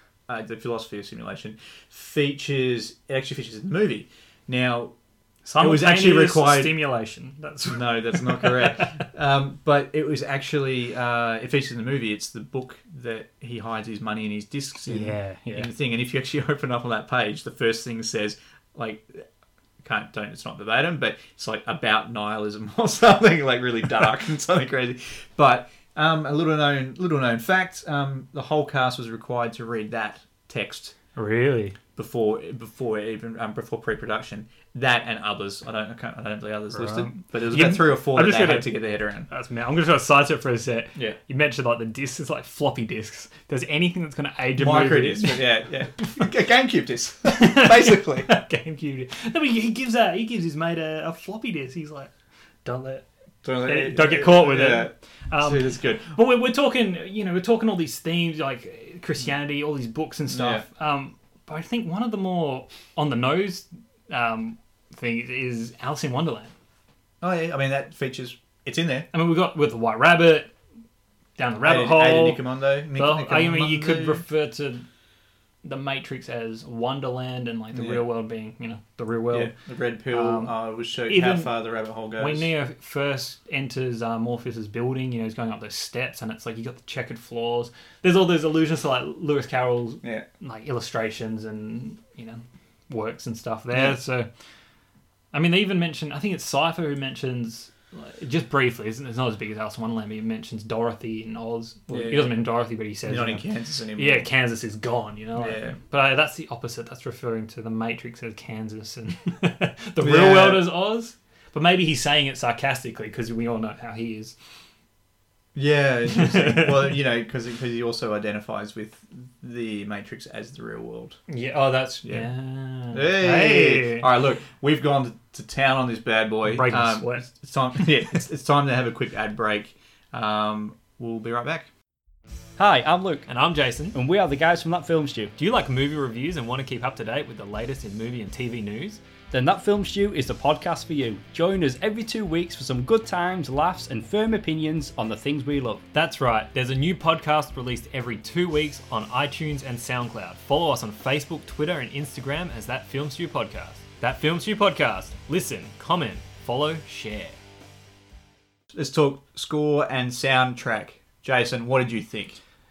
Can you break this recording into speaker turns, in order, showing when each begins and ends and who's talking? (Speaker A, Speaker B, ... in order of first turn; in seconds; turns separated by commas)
Speaker A: 0.3-4.9, Speaker B: 5.4-8.9, Speaker A: 5.6-6.8, Speaker A: 7.7-19.2, Speaker B: 14.8-15.7, Speaker A: 19.8-30.9, Speaker B: 31.1-31.8, Speaker A: 31.9-39.3, Speaker B: 36.7-45.4, Speaker A: 44.6-48.3, Speaker B: 47.3-52.1, Speaker B: 52.6-53.0, Speaker A: 53.4-56.1, Speaker B: 53.6-66.5, Speaker A: 60.3-60.6, Speaker A: 67.2-69.1, Speaker B: 69.1-70.5, Speaker B: 71.4-72.4, Speaker A: 71.6-74.2, Speaker B: 72.9-74.8, Speaker B: 75.6-79.5, Speaker A: 77.7-78.0, Speaker A: 79.3-82.5, Speaker B: 80.1-80.5, Speaker B: 81.0-81.5, Speaker B: 82.2-94.3, Speaker A: 93.7-94.0, Speaker B: 95.3-114.3, Speaker A: 101.9-102.3, Speaker A: 103.0-104.3, Speaker A: 105.4-105.8, Speaker A: 110.0-110.7, Speaker A: 115.5-121.2, Speaker B: 116.1-116.9, Speaker B: 121.3-124.1, Speaker A: 122.9-131.7, Speaker B: 126.5-127.2, Speaker C: 132.6-133.2, Speaker B: 133.2-134.0, Speaker C: 133.9-135.3, Speaker B: 135.4-139.0, Speaker C: 139.3-145.8, Speaker B: 145.9-157.4, Speaker A: 158.7-162.4